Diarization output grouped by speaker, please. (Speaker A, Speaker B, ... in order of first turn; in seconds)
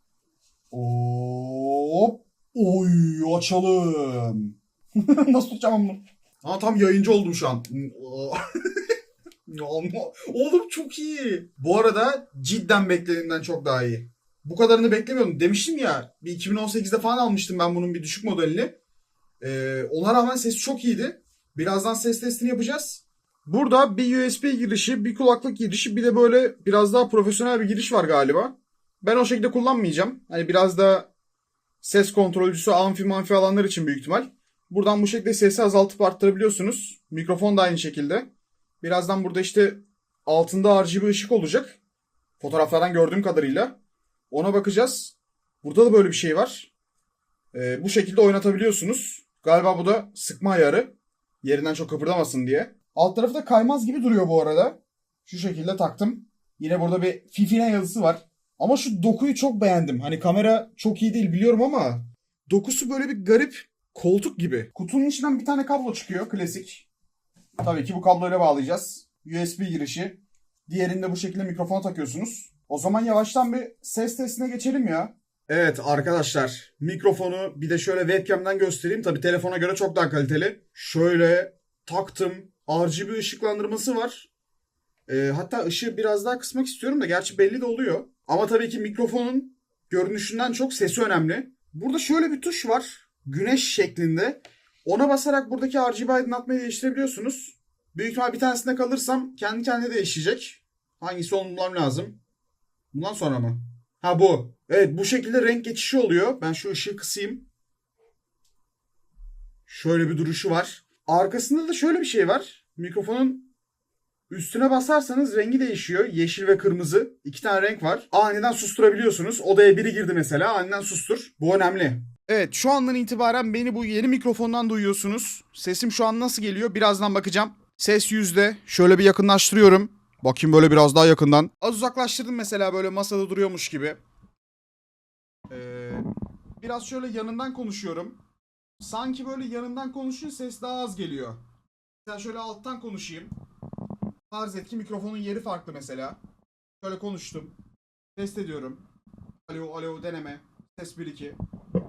Speaker A: 0.7-8.9, 9.5-18.8, 19.4-31.1, 31.8-38.3, 38.8-41.8, 42.4-43.8, 44.3-46.7, 47.5-50.9, 51.4-66.9, 67.6-84.3, 85.1-102.2, 102.9-107.5, 109.7-113.5, 114.3-134.0, 135.5-136.1, 136.6-138.2, 138.8-141.4, 142.1-143.3, 144.3-146.2, 146.8-147.5, 148.2-148.8, 149.5-151.4